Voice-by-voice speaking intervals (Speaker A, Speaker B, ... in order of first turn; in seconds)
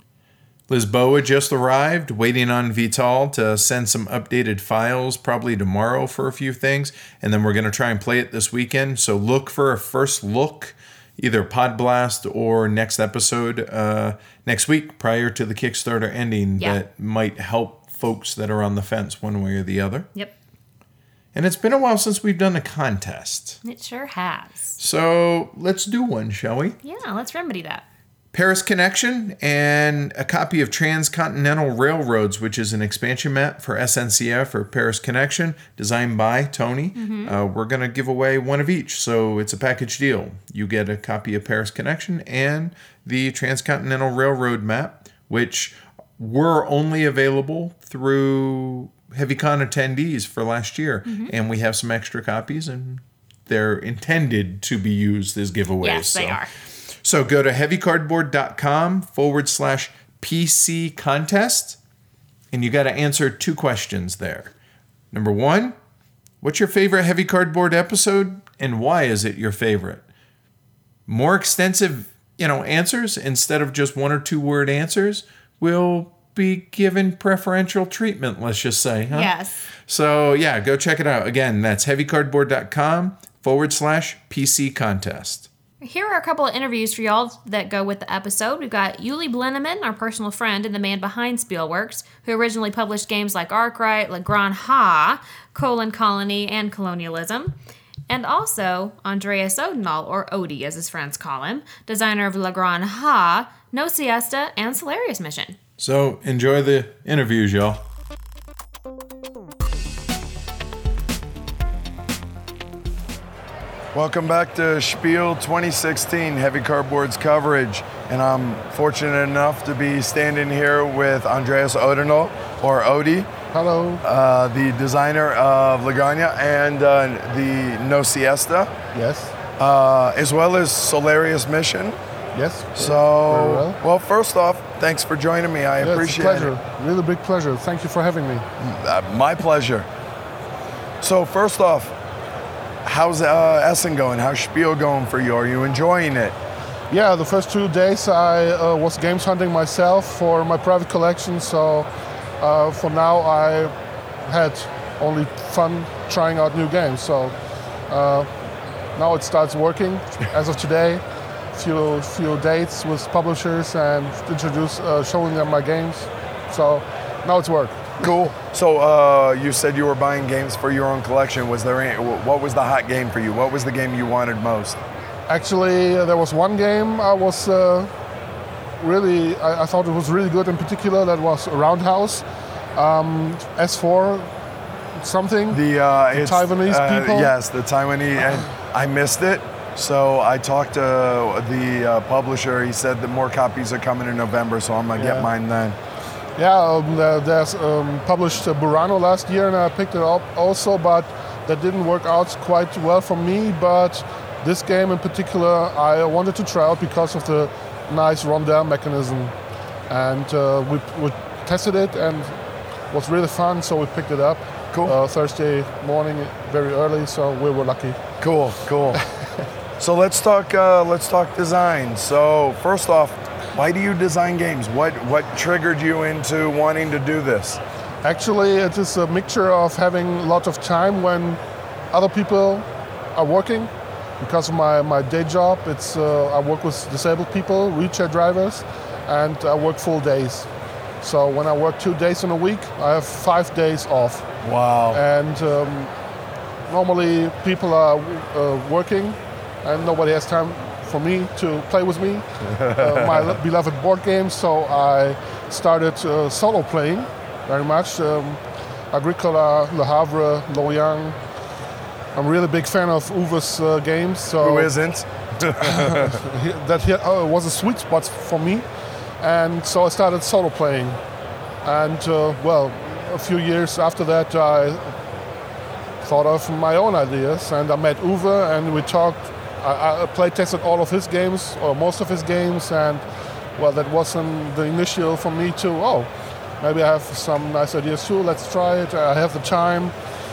Speaker A: 0.7-20.1, 21.3-23.6, 24.8-26.8, 28.3-56.4, 57.0-61.8, 62.5-64.5, 65.1-65.8, 66.4-70.0, 71.1-85.5, 105.8-107.8
Speaker B: 23.6-24.8, 26.8-27.9, 37.0-37.4, 51.1-51.3, 55.8-56.5, 79.1-79.6, 85.8-97.5, 98.1-105.6
Speaker C: 113.9-123.3, 124.0-128.8, 129.6-132.0, 132.8-136.5, 138.6-139.9, 141.0-142.0, 142.8-146.4, 168.0-174.8, 185.5-195.8, 218.2-219.0, 219.8-227.6, 244.4-245.0, 252.6-253.3, 264.4-266.2
Speaker D: 123.5-124.0, 128.9-129.3, 132.3-133.8, 135.8-138.5, 146.9-151.9, 152.4-157.4, 157.9-158.3, 158.9-168.0, 175.3-177.9, 178.8-182.2, 182.8-184.3, 185.0-187.3, 195.0-195.3, 196.4-209.4, 209.9-212.4, 212.9-218.0, 228.0-231.4, 231.9-240.5, 241.0-244.3, 244.9-245.9, 246.7-261.2, 262.1-264.7, 265.6-268.7, 269.2-271.0, 271.6-275.0, 276.0-289.9